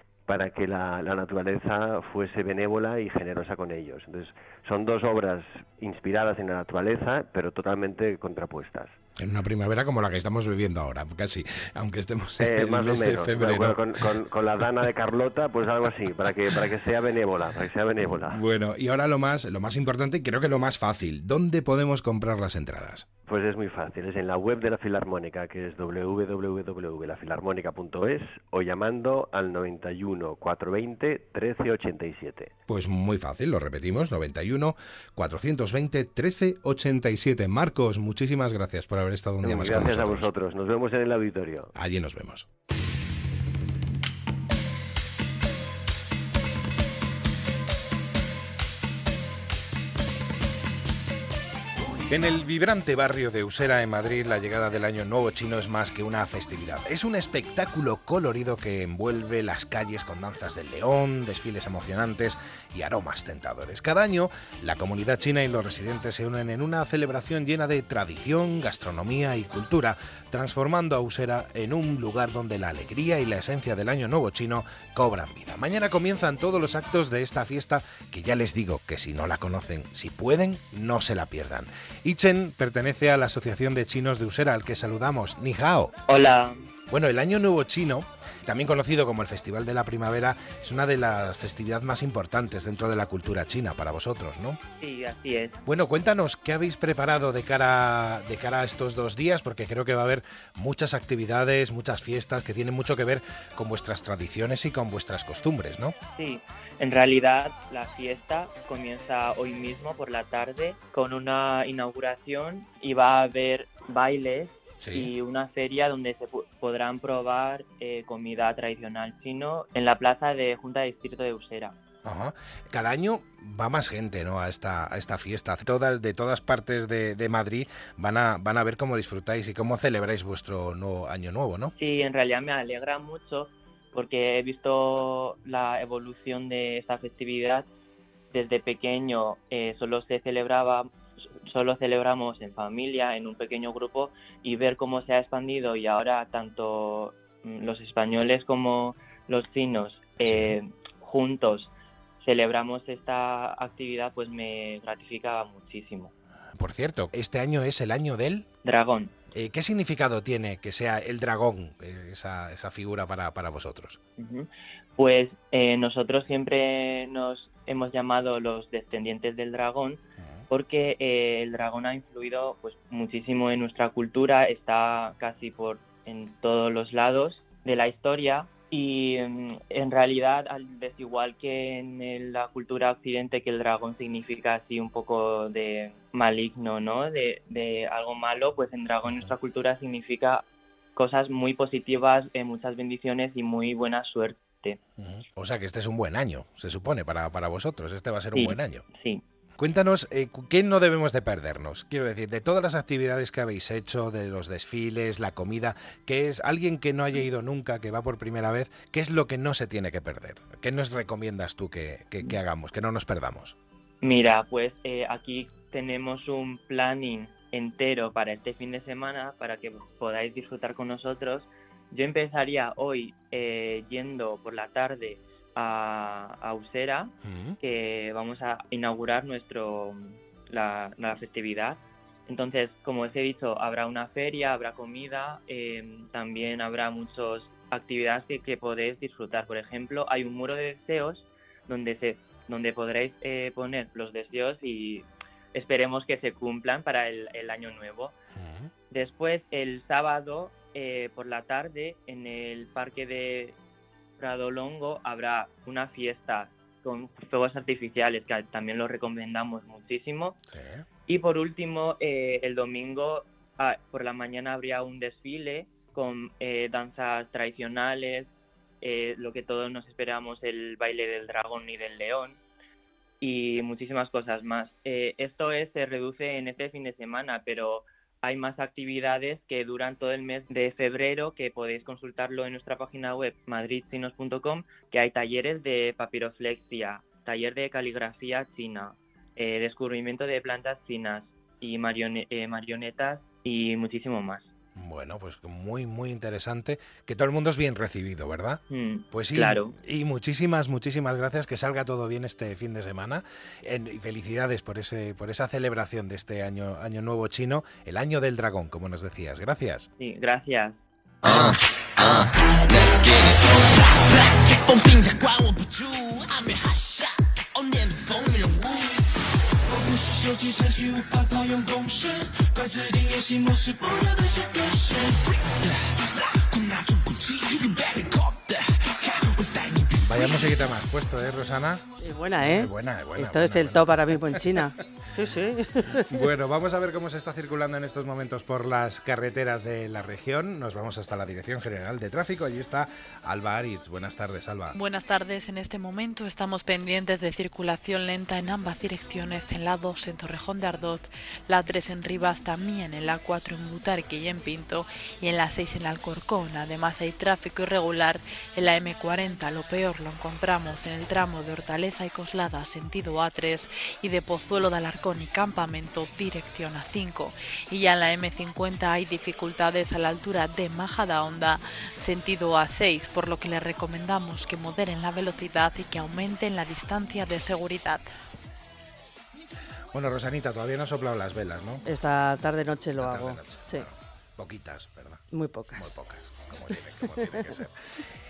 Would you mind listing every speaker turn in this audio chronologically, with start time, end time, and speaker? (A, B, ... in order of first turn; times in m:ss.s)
0:00.3-0:09.0 A
0:09.2-0:14.1 B
0:12.4-0:18.4 A
0:18.3-0:23.1 B
0:23.3-0:32.5 A
0:32.7-0:40.3 B
0:39.4-0:41.7 A
0:41.7-0:42.5 B
0:52.1-1:25.9 B
1:26.1-1:26.6 C
1:26.9-1:34.6 B
1:34.8-1:35.6 C
1:35.6-1:45.9 B
1:46.2-2:01.7 C
1:54.8-1:55.1 B
2:02.0-2:11.7 B
2:11.8-2:17.6 C
2:18.3-2:20.9 C
2:21.4-2:36.1 C
2:30.2-2:30.6 B
2:36.6-2:38.5 B
2:38.6-2:39.1 C
2:39.3-2:44.0 B
2:44.2-3:10.4 C
3:09.1-3:09.3 B
3:11.0-3:14.8 C
3:15.0-3:18.8 B
3:18.3-3:19.2 C
3:19.6-3:33.5 B
3:34.0-4:08.1 C
3:47.2-3:47.6 B
4:08.4-4:08.7 B
4:08.9-4:13.6 C
4:14.2-4:20.4 C
4:20.5-4:20.8 B
4:21.1-4:28.3 C
4:28.8-4:32.4 C
4:33.2-4:54.5 C
4:54.8-5:09.9 B
4:58.7-4:59.7 C
5:10.0-5:10.8 C
5:30.0-5:31.8 B
5:32.0-5:35.5 D
5:32.4-5:34.3 B
5:36.1-5:44.8 B
5:44.7-6:18.1 E
6:19.9-6:21.8 B
6:21.9-6:23.8 D
6:23.0-6:25.2 B
6:25.3-6:25.9 D
6:25.7-6:27.7 B